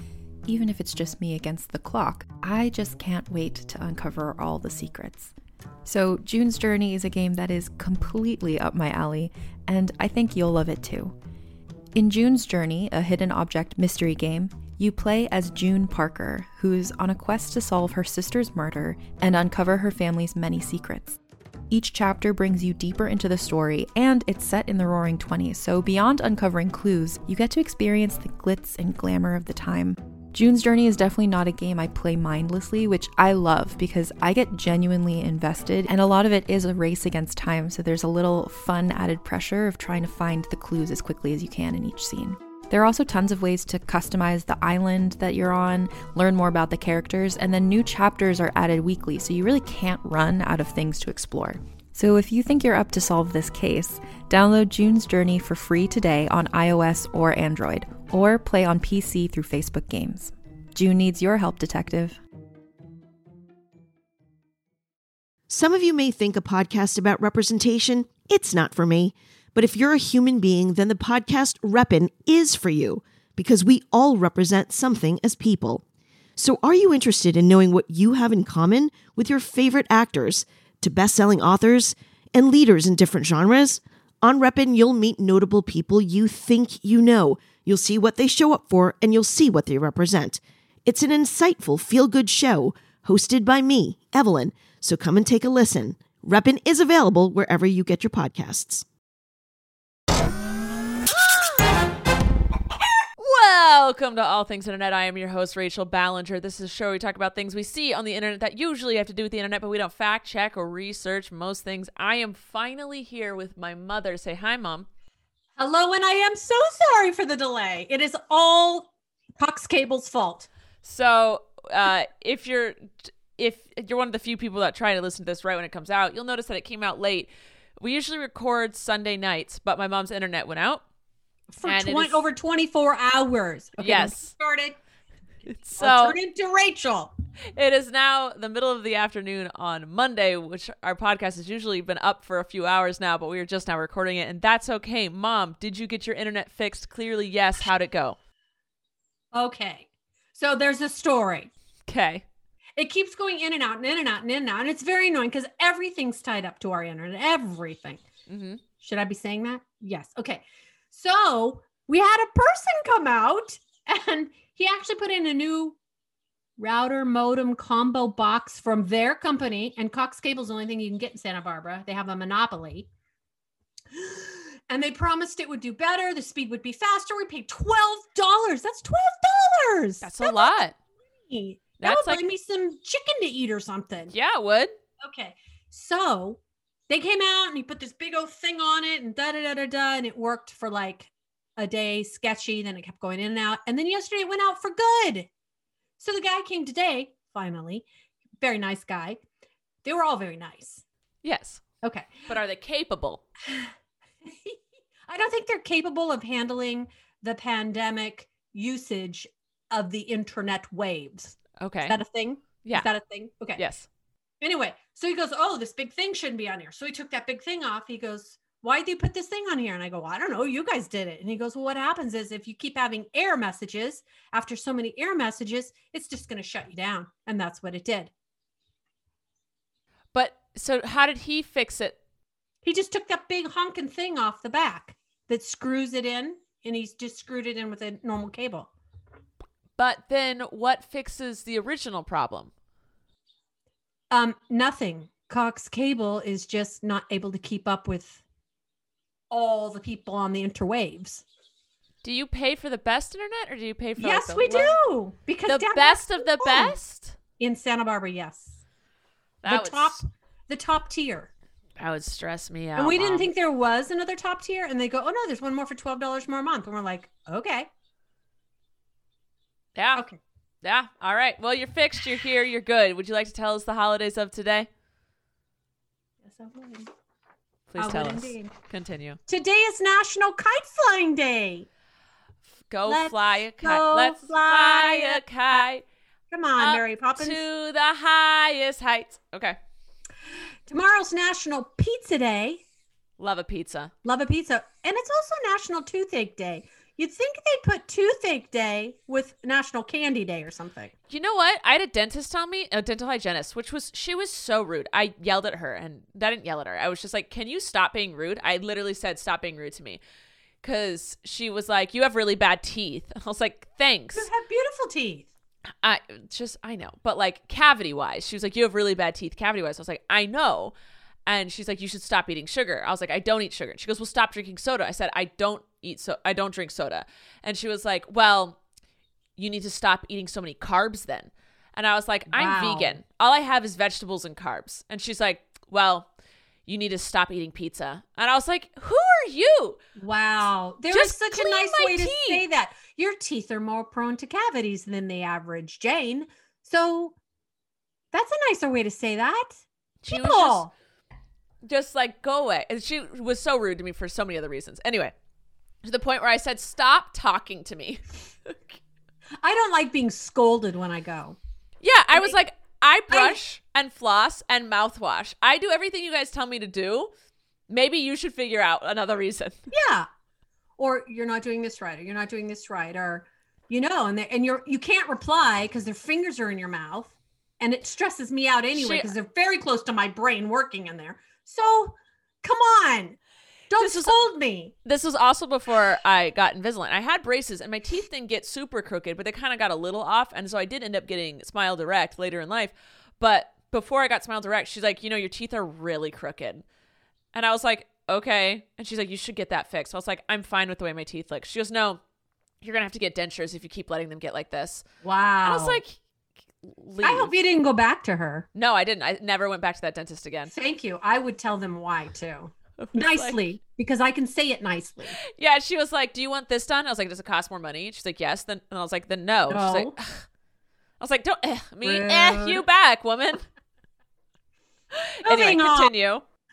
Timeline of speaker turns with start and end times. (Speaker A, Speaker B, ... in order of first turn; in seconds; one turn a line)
Speaker A: 0.5-5.3
Speaker A: 5.8-11.2
Speaker A: 11.9-21.2
Speaker A: 21.7-62.2
Speaker B: 65.5-75.8
Speaker B: 76.4-98.8
Speaker C: 103.2-114.9
Speaker D: 115.6-120.5
Speaker C: 120.8-130.8
Speaker D: 131.5-134.8
Speaker C: 131.6-132.2
Speaker C: 133.8-134.3
Speaker C: 135.5-136.2
Speaker D: 135.8-137.1
Speaker C: 137.5-148.2
Speaker D: 149.3-151.5
Speaker C: 151.9-152.2
Speaker D: 152.8-158.0
Speaker C: 158.3-158.6
Speaker D: 158.8-165.8
Speaker D: 166.6-172.9
Speaker D: 173.9-180.7
Speaker C: 180.0-180.8
Speaker D: 181.3-184.1
Speaker C: 181.8-182.2
Speaker C: 184.1-184.7
Speaker D: 185.0-195.3
Speaker D: 196.0-197.8
Speaker D: 198.4-199.2
Speaker D: 199.8-200.8
Speaker C: 201.2-201.6
Speaker D: 201.8-202.3
Speaker C: 202.3-203.2
Speaker D: 204.2-213.6
Speaker C: 211.6-212.0
Speaker C: 213.6-213.9
Speaker D: 214.4-228.1
Speaker C: 230.1-232.0
Speaker D: 232.6-238.7
Speaker C: 239.8-242.5
Speaker D: 244.1-248.2
Speaker D: 249.3-251.2
Speaker C: 252.0-254.8
Speaker D: 254.0-256.8
Speaker C: 255.5-257.2
Speaker D: 257.4-258.6
Speaker C: 259.4-260.0
Speaker D: 259.4-261.3
Speaker C: 261.8-263.3
Speaker D: 262.8-267.7
Speaker C: 269.8-270.1
Speaker C: 270.6-274.7
Speaker D: 276.2-276.9
Speaker C: 277.7-279.2
Speaker D: 277.8-278.5
Speaker D: 279.3-281.7
Speaker C: 282.7-285.9
Speaker D: 282.9-285.2
Speaker D: 286.3-287.4
Speaker C: 286.6-289.6
Speaker D: 290.7-292.6
Speaker C: 293.2-293.9
Speaker D: 294.0-300.9
Speaker C: 301.1-310.0
Speaker C: 310.6-314.3
Speaker D: 314.1-315.3
Speaker C: 315.8-320.8
Speaker C: 321.2-328.6
Speaker C: 329.4-336.1
Speaker D: 332.3-333.0
Speaker C: 336.7-339.8
Speaker D: 340.0-347.1
Speaker C: 340.9-342.4
Speaker D: 348.1-350.7
Speaker C: 350.0-350.6
Speaker C: 351.6-355.1
Speaker C: 355.8-358.8
Speaker D: 359.4-361.4
Speaker C: 361.8-367.1
Speaker D: 363.1-363.4
Speaker C: 367.7-369.6
Speaker D: 369.7-370.1
Speaker D: 370.8-383.2
Speaker C: 378.7-379.1
Speaker D: 383.7-384.7
Speaker C: 383.8-384.2
Speaker C: 384.9-396.6
Speaker C: 397.3-402.0
Speaker C: 402.6-404.9
Speaker D: 405.0-405.8
Speaker C: 405.4-406.0
Speaker C: 406.6-407.3
Speaker D: 407.0-408.5
Speaker C: 408.6-410.5
Speaker D: 410.5-415.2
Speaker C: 412.8-413.4
Speaker C: 415.3-420.2
Speaker D: 419.5-419.9
Speaker C: 421.0-423.4
Speaker D: 421.8-422.6
Speaker C: 424.9-426.2
Speaker D: 425.2-425.9